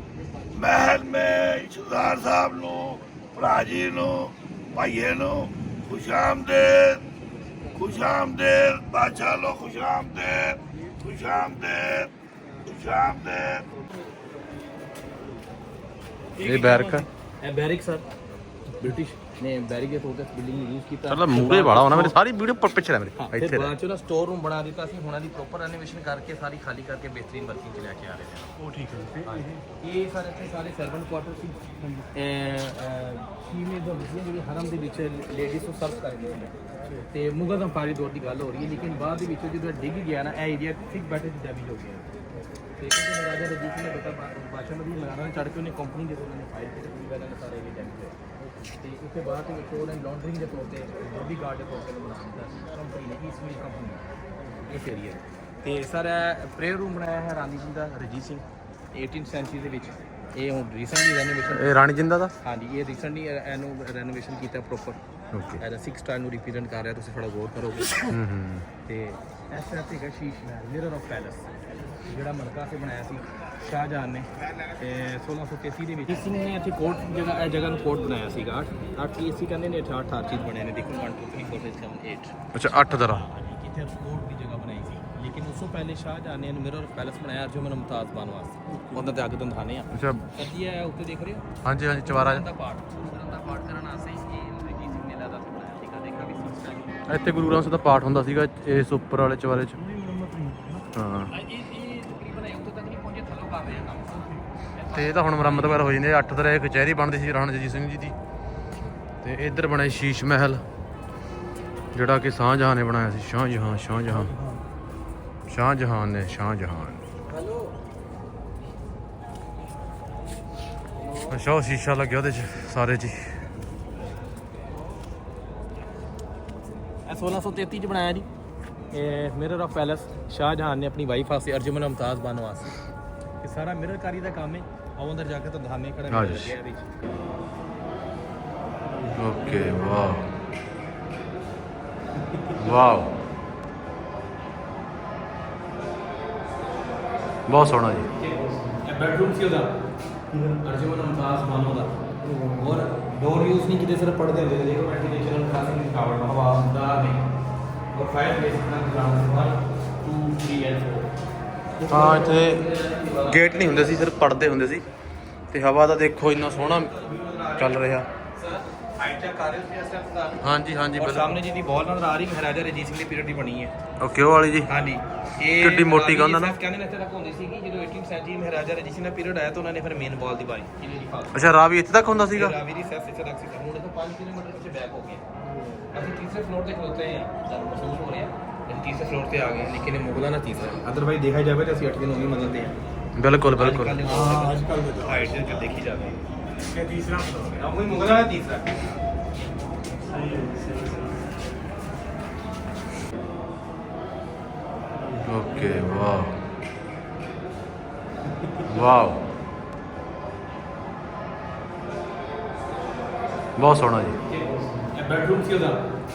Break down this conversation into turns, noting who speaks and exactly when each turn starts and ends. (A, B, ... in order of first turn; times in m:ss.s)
0:00.5-0:07.0 A
0:07.7-0:12.1 A
0:12.6-0:13.7 A
0:16.4-0:17.1 B
0:16.4-0:17.1 C
0:17.4-0:18.1 D
0:18.7-0:22.2 D
0:21.1-0:23.7 C
0:23.2-0:28.5 D
0:28.6-0:29.6 B
0:29.2-0:31.6 D
0:31.8-0:32.1 B
0:32.1-0:36.6 D
0:37.1-0:42.1 D
0:42.8-0:54.1 D
0:54.6-1:01.8 D
1:01.5-1:02.3 C
1:02.4-1:05.0 D
1:05.3-1:05.6 C
1:05.6-1:08.2 D
1:08.1-1:08.7 C
1:08.8-1:31.5 D
1:22.5-1:23.2 C
1:28.7-1:29.1 B
1:29.9-1:30.3 C
1:31.6-1:32.4 C
1:32.1-1:37.0 D
1:37.1-1:39.8 C
1:39.8-1:40.9 B
1:41.0-1:41.3 C
1:41.3-1:46.0 D
1:44.9-1:48.2 C
1:49.2-1:50.6 C
1:51.9-1:54.3 C
1:54.1-1:54.6 B
1:55.5-1:57.0 C
1:57.3-1:57.7 D
2:01.3-2:03.5 C
2:07.1-2:08.3 D
2:08.9-2:12.8 D
2:13.4-2:17.2 D
2:16.1-2:16.6 C
2:19.0-2:19.7 B
2:19.2-2:20.3 C
2:22.6-2:23.1 C
2:27.5-2:28.1 C
2:28.2-2:29.7 D
2:28.4-2:28.8 B
2:30.3-2:30.6 B
2:30.6-2:32.0 D
2:32.2-2:32.6 B
2:32.6-2:37.2 D
2:37.9-2:41.1 D
2:41.8-2:43.9 D
2:41.9-2:42.7 C
2:43.2-2:44.8 C
2:45.5-2:46.9 C
2:46.6-2:50.4 D
2:47.6-2:48.1 C
2:50.4-2:51.4 C
2:51.0-2:53.7 D
2:54.0-2:54.8 C
2:54.6-3:01.5 D
2:55.6-2:56.6 C
3:01.3-3:02.6 C
3:02.1-3:05.2 D
3:05.9-3:12.8 D
3:13.2-3:14.0 C
3:13.6-3:16.2 D
3:14.0-3:15.6 B
3:16.6-3:17.6 B
3:17.6-3:18.8 D
3:20.0-3:21.2 B
3:25.0-3:26.1 B
3:25.2-3:26.4 C
3:28.7-3:29.2 C
3:33.6-3:34.2 C
3:34.3-3:35.8 D
3:34.5-3:34.9 B